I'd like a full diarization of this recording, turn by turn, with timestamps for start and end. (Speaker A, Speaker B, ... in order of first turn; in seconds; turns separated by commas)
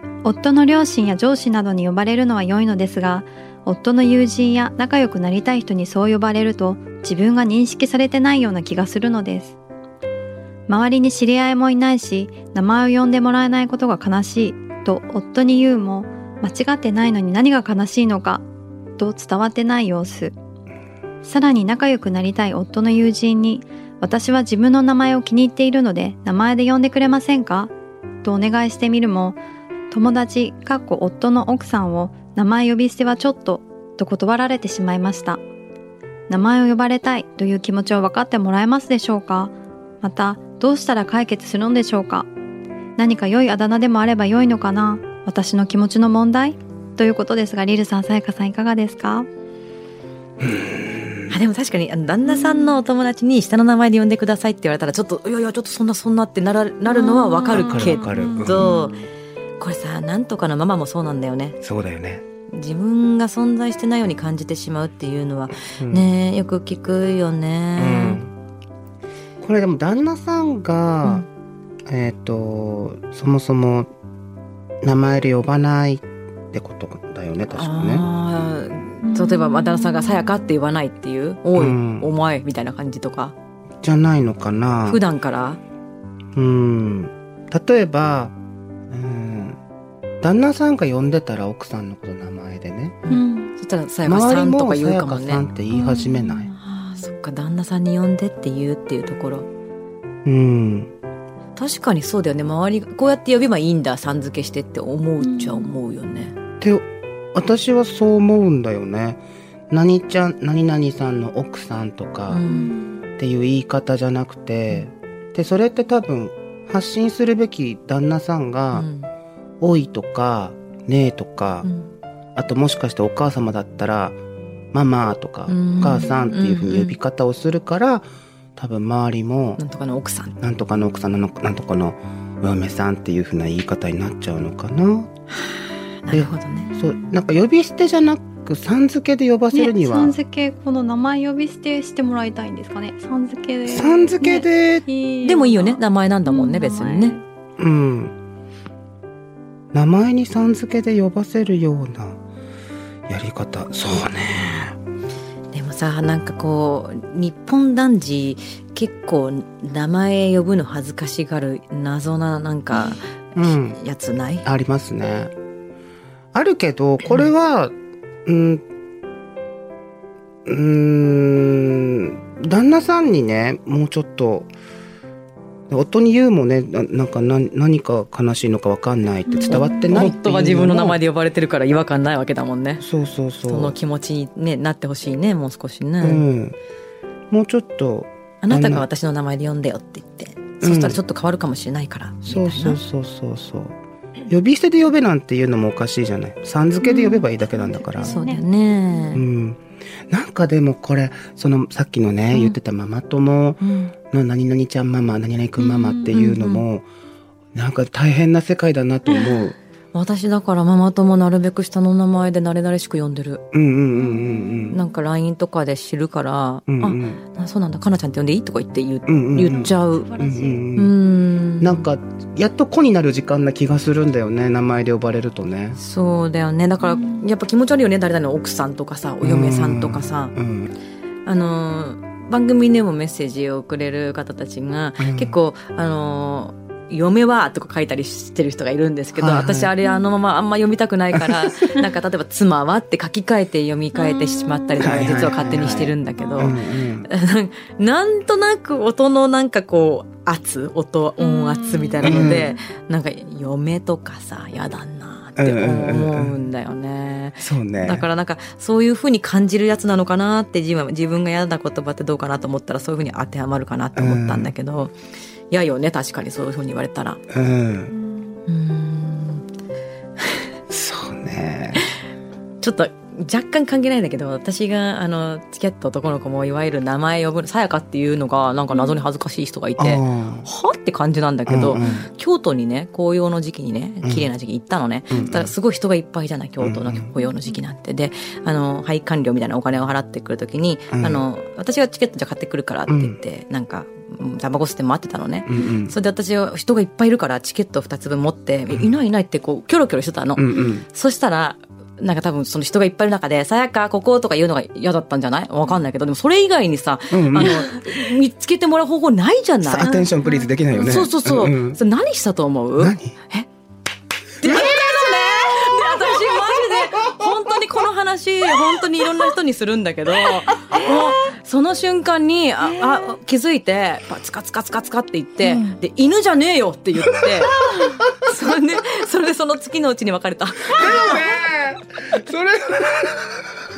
Speaker A: 0.2-9.5, Speaker A: 10.7-18.4, Speaker A: 19.0-20.3, Speaker A: 21.2-27.7, Speaker A: 28.2-29.4, Speaker A: 29.9-35.4, Speaker A: 36.3-42.3, Speaker A: 43.0-49.3, Speaker B: 50.4-51.3, Speaker C: 51.3-59.0, Speaker A: 52.4-52.7, Speaker A: 56.9-58.9, Speaker B: 57.5-58.7, Speaker C: 59.6-61.6, Speaker B: 61.6-62.2, Speaker C: 62.5-68.2, Speaker B: 65.6-66.1, Speaker B: 67.8-68.3, Speaker B: 69.4-71.3, Speaker B: 71.9-73.9, Speaker B: 74.8-78.1, Speaker C: 77.5-83.3, Speaker A: 79.0-80.3, Speaker B: 81.5-82.1, Speaker B: 83.8-85.0, Speaker C: 84.8-85.6, Speaker B: 86.3-88.3, Speaker B: 88.9-89.6, Speaker B: 90.2-93.0, Speaker C: 93.0-95.4, Speaker A: 93.1-93.5, Speaker B: 94.0-96.5, Speaker A: 95.7-96.5, Speaker C: 96.6-99.5, Speaker B: 100.2-100.9, Speaker C: 101.5-106.3, Speaker A: 105.2-105.7, Speaker B: 106.6-112.4, Speaker C: 112.3-112.8, Speaker A: 112.5-113.0, Speaker B: 113.2-118.9, Speaker C: 118.7-119.1, Speaker B: 119.6-121.7, Speaker C: 121.6-121.9, Speaker B: 122.3-124.2, Speaker B: 124.7-129.6, Speaker C: 125.5-127.0, Speaker C: 129.6-130.3, Speaker B: 130.4-135.1, Speaker C: 136.0-136.7, Speaker B: 136.1-140.1, Speaker A: 136.6-137.2, Speaker A: 139.5-147.2, Speaker B: 143.7-144.8, Speaker C: 145.2-147.2, Speaker B: 147.6-148.1, Speaker B: 149.7-152.2, Speaker B: 153.1-154.8, Speaker C: 155.5-164.4, Speaker B: 163.3-163.8, Speaker B: 164.4-165.3, Speaker B: 166.3-167.7, Speaker B: 168.2-168.6, Speaker B: 170.4-174.5, Speaker B: 175.7-181.0, Speaker A: 179.3-180.1, Speaker C: 179.5-182.8, Speaker B: 182.8-183.8, Speaker C: 183.4-186.2, Speaker B: 186.0-186.6, Speaker B: 187.3-188.8, Speaker C: 188.4-192.8, Speaker B: 190.6-191.0, Speaker B: 192.2-193.7, Speaker B: 194.3-198.2, Speaker A: 196.8-199.2, Speaker C: 198.0-199.2, Speaker B: 199.1-206.8, Speaker C: 203.6-203.9, Speaker A: 205.6-206.1, Speaker C: 206.1-206.6, Speaker B: 207.5-209.5, Speaker C: 209.9-213.4, Speaker B: 213.5-214.8, Speaker C: 214.7-220.1, Speaker B: 216.7-217.2, Speaker B: 219.1-220.9, Speaker A: 219.5-220.6, Speaker C: 220.7-221.8, Speaker B: 221.6-225.8, Speaker C: 225.8-230.3, Speaker A: 226.9-227.2, Speaker B: 229.2-230.7, Speaker C: 231.2-264.9, Speaker B: 235.0-235.4, Speaker B: 239.1-239.7, Speaker B: 244.8-247.1, Speaker B: 252.0-252.6, Speaker B: 255.4-256.4, Speaker B: 257.4-258.1, Speaker B: 263.9-264.5, Speaker C: 265.5-267.2, Speaker B: 267.3-267.9, Speaker C: 268.5-269.4, Speaker B: 270.7-271.8, Speaker C: 272.6-310.0, Speaker B: 279.8-280.5, Speaker B: 281.5-282.1, Speaker B: 284.0-284.3, Speaker B: 285.1-285.5, Speaker B: 286.6-287.1, Speaker B: 290.9-291.2, Speaker B: 292.9-293.1, Speaker B: 295.5-295.9, Speaker B: 300.4-300.9, Speaker B: 307.1-307.7, Speaker B: 309.6-311.8, Speaker C: 310.7-313.5, Speaker B: 312.8-313.1, Speaker C: 314.4-331.3, Speaker B: 314.4-315.1, Speaker B: 327.1-327.9, Speaker B: 330.6-333.5